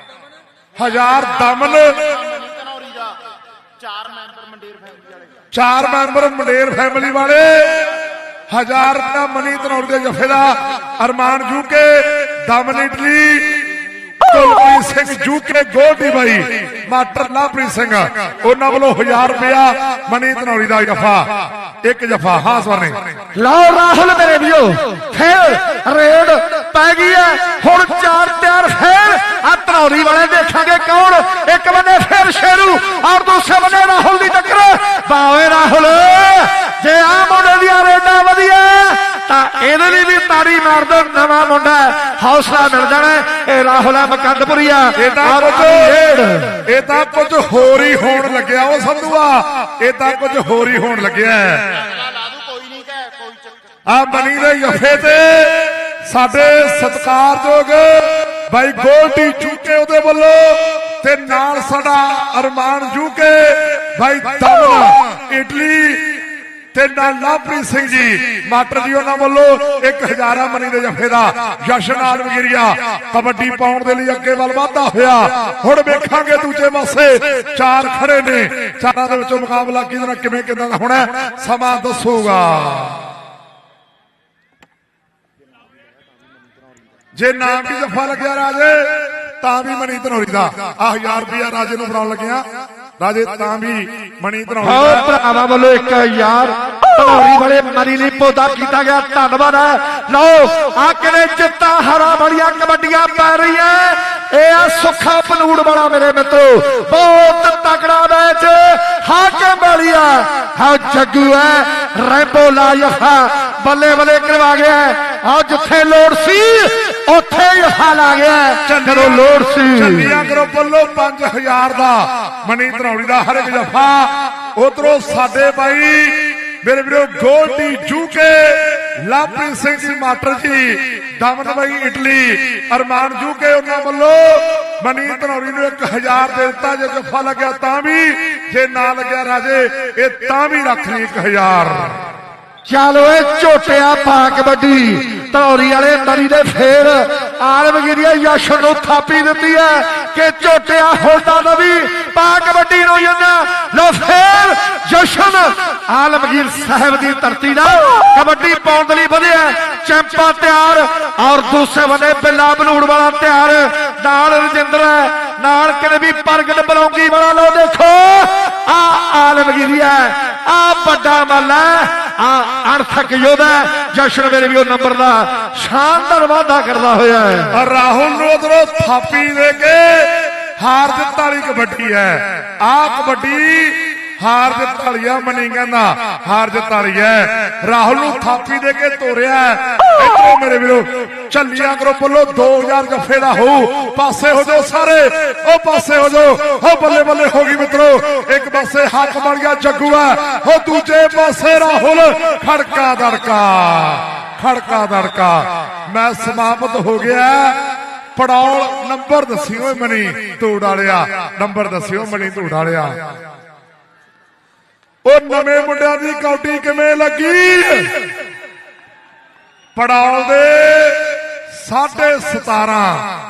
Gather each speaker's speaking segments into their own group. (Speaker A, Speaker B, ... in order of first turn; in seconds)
Speaker A: 0.8-2.2, 5.5-8.0, 8.5-13.7, 14.3-23.1, 45.0-46.0, 46.7-51.9, 53.9-66.2, 66.7-83.0, 87.2-92.5, 93.0-95.1, 118.7-142.0, 177.5-213.1, 215.1-218.1, 219.8-223.1
Speaker B: 2.1-3.2, 3.8-5.3, 51.7-53.6
Speaker C: 23.4-46.7, 94.6-120.1, 142.7-177.6